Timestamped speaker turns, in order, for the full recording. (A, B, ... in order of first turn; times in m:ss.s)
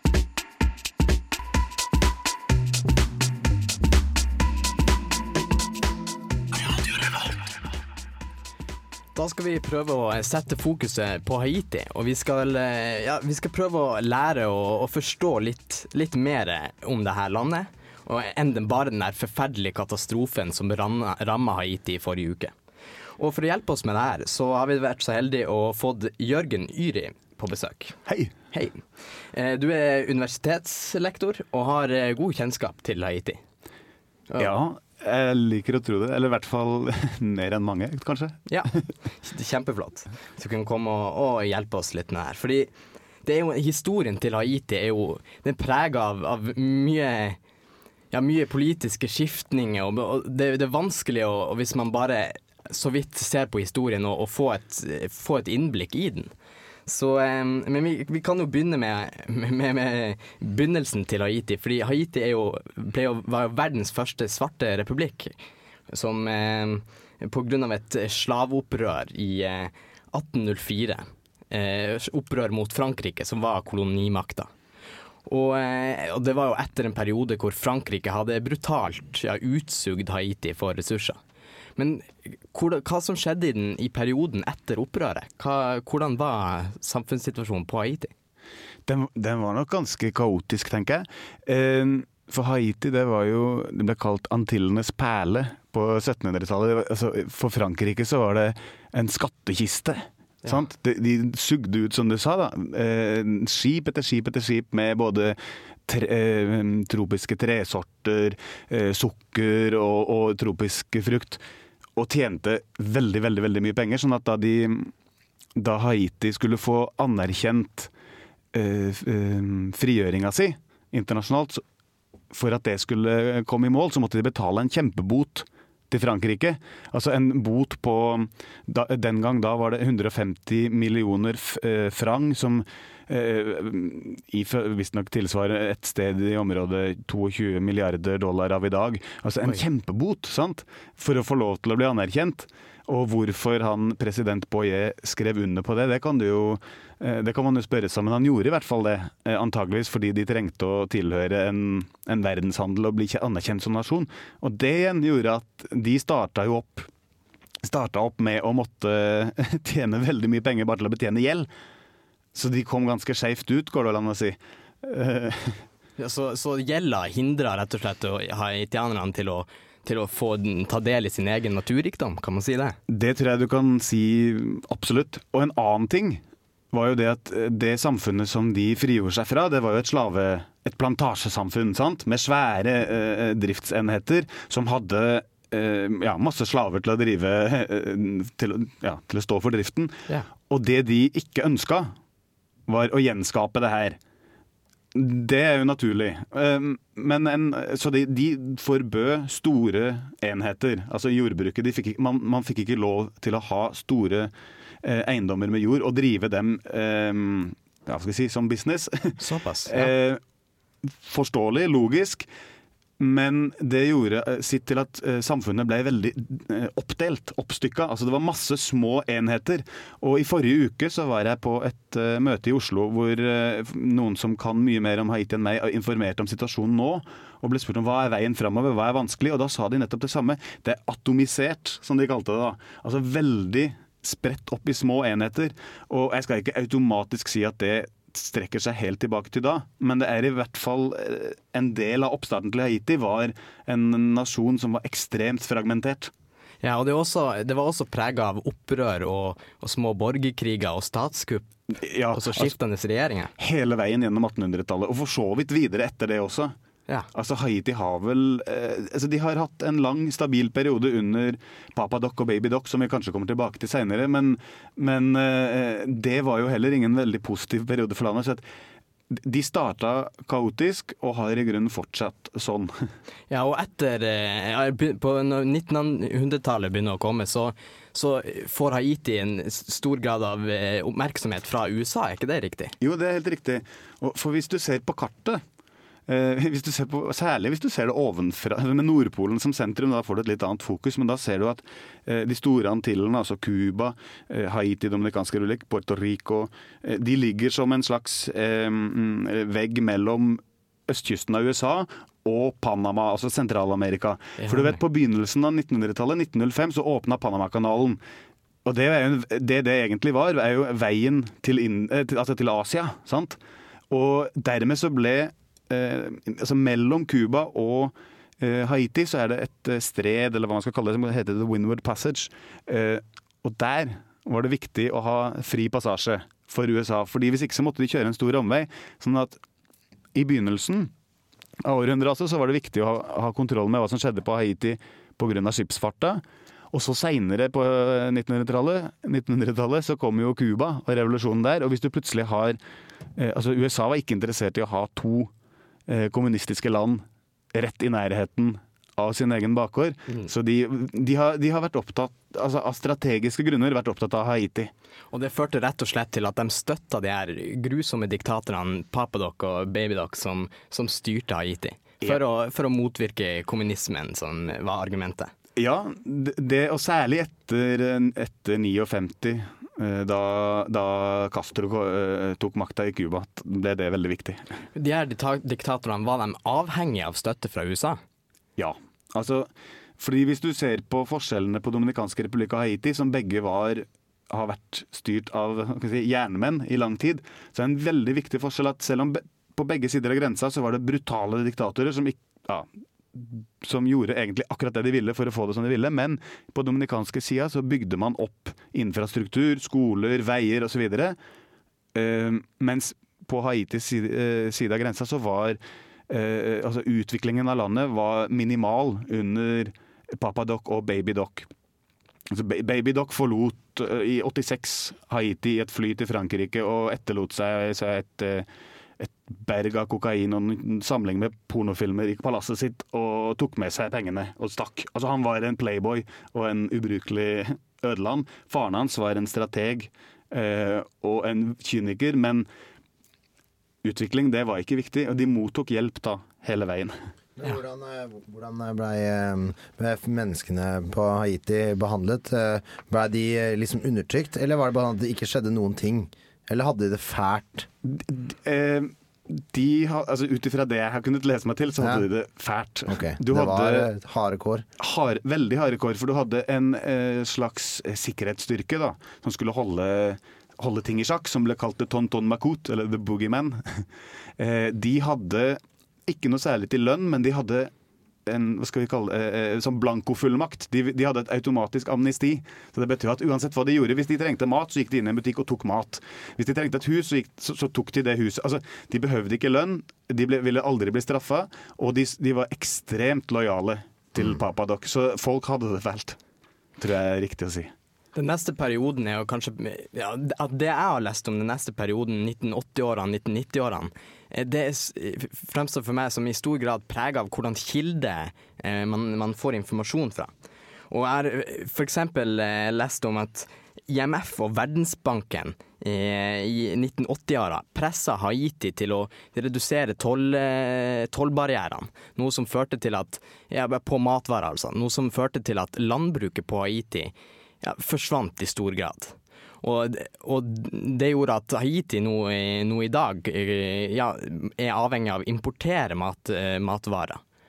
0:09.2-0:22.5 A
0:23.2-0:28.0 A
0:28.1-0:28.3 B
0:28.5-0:33.4 A
0:34.4-0:38.8 B
0:38.5-0:42.7 A
0:43.2-0:47.4 A
0:48.1-0:56.3 A
0:56.9-1:05.3 A
1:05.9-1:14.5 A
1:15.3-1:21.2 A
1:21.8-1:28.1 A
1:28.9-1:51.4 B
1:52.0-1:54.9 B
1:55.6-1:57.9 B
1:58.5-2:01.6 B
2:02.3-2:36.9 B
2:37.6-2:41.5 B
2:42.4-2:45.6 B
2:46.0-2:52.8 A
2:52.9-3:11.9 B
3:12.7-3:14.0 B
3:14.9-3:24.3 B
3:24.8-3:30.2 B
3:29.2-3:29.9 A
3:31.0-3:32.3 B
3:33.0-4:06.1 B
4:06.6-4:11.5 A
4:11.8-4:12.6 B
4:12.1-4:13.3 A
4:13.4-4:16.6 B
4:17.1-4:28.4 B
4:29.1-4:32.9 B
4:33.3-4:42.7 A
4:42.8-4:45.4 B
4:46.1-5:08.0 B
5:04.4-5:04.8 A
5:08.6-5:13.4 B
5:13.9-5:29.4 B
5:30.2-5:30.9 B
5:31.6-5:42.6 B
5:43.2-5:45.3 B
5:45.9-5:54.7 B
5:55.1-6:05.3 A
6:05.6-6:14.5 B
6:14.8-6:18.0 A
6:18.6-6:41.2 B
6:41.9-6:51.5 B
6:52.3-6:58.5 B
6:59.0-7:12.5 B
7:13.8-7:17.0 B
7:17.4-7:27.7 C
7:27.8-7:33.9 B
7:32.9-7:34.6 C
7:34.8-7:43.9 B
7:44.4-7:47.7 B
7:48.3-8:06.2 B
8:06.8-8:07.7 B
8:08.2-8:20.3 A
8:20.9-8:47.2 A